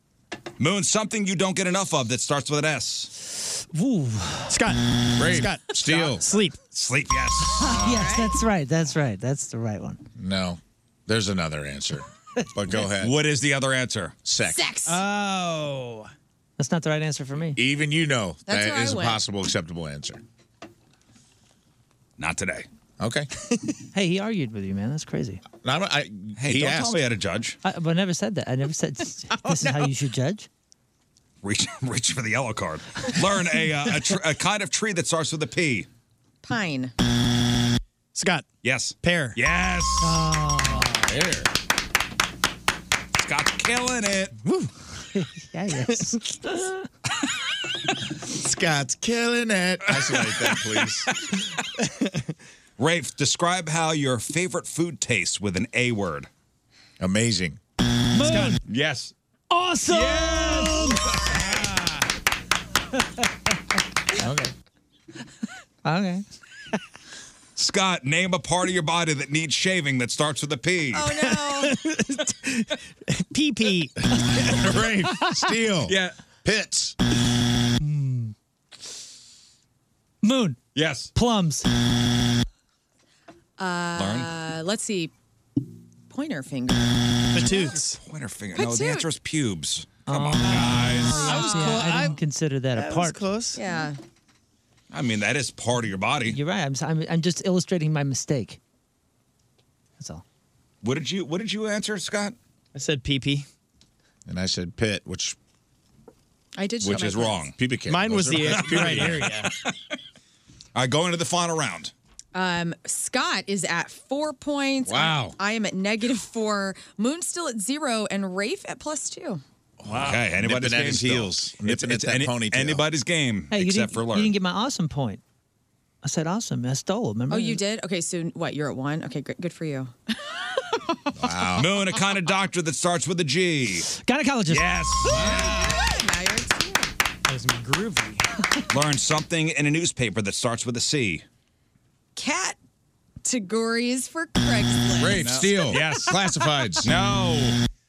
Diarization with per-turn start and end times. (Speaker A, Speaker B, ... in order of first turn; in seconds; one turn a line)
Speaker A: 0.6-3.1
Speaker B: 3.7-4.5
Speaker C: 4.5-6.6
Speaker D: 5.1-6.2
Speaker A: 6.7-8.1
Speaker B: 7.6-10.0
Speaker E: 7.6-8.3
Speaker D: 10.2-13.2
Speaker A: 12.8-14.1
Speaker D: 14.2-14.7
Speaker E: 14.4-15.0
Speaker C: 14.8-16.1
Speaker B: 16.6-17.6
Speaker D: 17.6-20.2
Speaker E: 18.5-19.2
Speaker A: 22.2-22.7
Speaker D: 23.0-23.3
Speaker B: 23.9-25.4
Speaker D: 25.6-27.0
Speaker A: 26.4-27.6
Speaker B: 27.6-30.5
Speaker A: 31.4-35.9
Speaker E: 36.4-36.9
Speaker C: 38.1-38.5
Speaker A: 38.6-40.2
Speaker C: 39.0-39.4
Speaker B: 40.0-41.0
Speaker D: 40.9-41.5
Speaker A: 43.1-44.3
Speaker B: 45.1-46.7
Speaker D: 48.2-51.1
Speaker A: 52.8-56.3
Speaker D: 57.0-57.6
Speaker B: 58.1-58.6
Speaker C: 58.2-58.6
Speaker A: 58.6-59.1
Speaker B: 59.5-61.0
Speaker A: 59.9-61.6
Speaker B: 65.8-66.2
Speaker A: 67.5-71.1
Speaker E: 70.9-71.8
Speaker C: 71.2-74.9
Speaker D: 74.3-77.0
Speaker A: 75.9-76.1
Speaker B: 77.8-78.3
Speaker B: 80.2-80.6
Speaker A: 80.7-81.1
Speaker B: 81.1-81.7
Speaker E: 83.6-85.1
Speaker A: 84.0-84.3
Speaker E: 86.1-87.0
Speaker C: 87.3-88.0
Speaker A: 87.5-91.8
Speaker E: 88.5-89.1
Speaker B: 90.0-93.2
Speaker C: 90.4-92.2
Speaker E: 91.0-91.8
Speaker C: 92.7-93.7
Speaker E: 93.5-94.0
Speaker A: 94.9-96.4
Speaker B: 96.3-98.6
Speaker B: 100.0-100.2
Speaker A: 100.8-102.3
Speaker C: 102.7-103.5
Speaker D: 104.2-105.4
Speaker E: 106.5-107.5
Speaker A: 106.8-107.5
Speaker D: 106.8-109.3
Speaker C: 107.8-109.5
Speaker A: 108.4-109.7
Speaker A: 110.7-111.9
Speaker E: 112.3-119.4
Speaker D: 114.8-115.4
Speaker D: 119.8-122.8
Speaker A: 119.8-124.3
Speaker B: 123.5-125.2
Speaker B: 126.0-127.6
Speaker E: 127.3-131.0
Speaker D: 131.2-131.8
Speaker A: 131.6-133.9
Speaker B: 133.9-134.7
Speaker A: 134.5-135.3
Speaker D: 135.1-135.6
Speaker E: 135.1-136.9
Speaker C: 135.2-135.5
Speaker C: 137.3-138.2
Speaker A: 138.7-141.2
Speaker E: 142.2-142.6
Speaker E: 143.2-145.3
Speaker D: 144.9-146.9
Speaker A: 145.1-146.2
Speaker A: 146.8-147.6